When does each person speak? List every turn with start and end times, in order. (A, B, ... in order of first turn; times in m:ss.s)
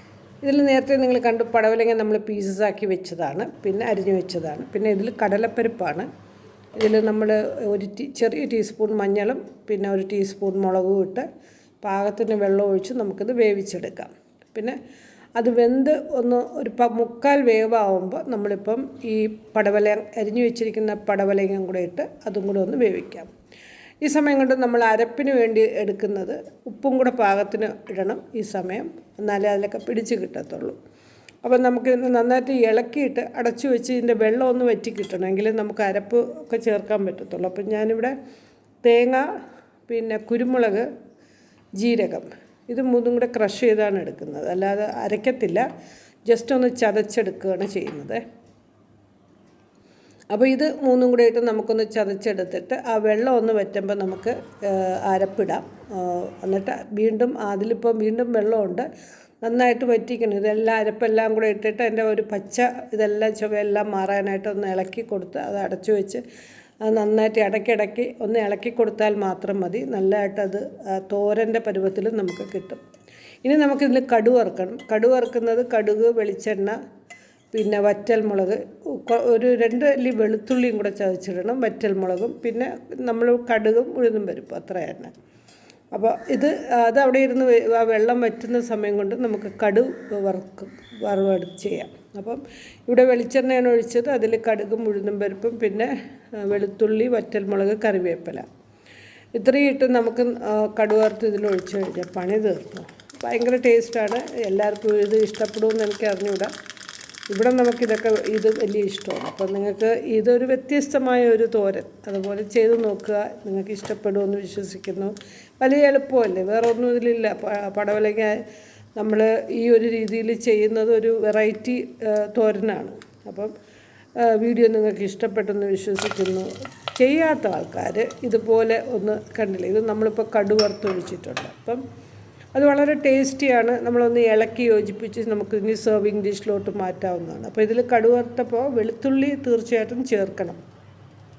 0:00.4-0:06.1 A
0:06.8-0:11.3 A
0:11.8-0:14.8 A
0:15.4-0:23.3 A
0:24.0-0:30.8 A
0:31.4-0:38.2 A
0:38.8-0:39.3 A
0:39.9-0:40.9 A
0:41.8-0:45.6 A
0:46.3-0:48.2 A
0:50.3-0:58.9 A
0:59.4-1:06.2 A
1:06.8-1:12.8 A
1:13.4-1:16.8 A
1:17.5-1:25.1 A
1:25.9-1:38.5 A
1:39.4-1:46.5 A
1:47.3-1:58.4 A
1:59.0-2:03.5 A
2:04.2-2:11.8 A
2:12.6-2:20.6 A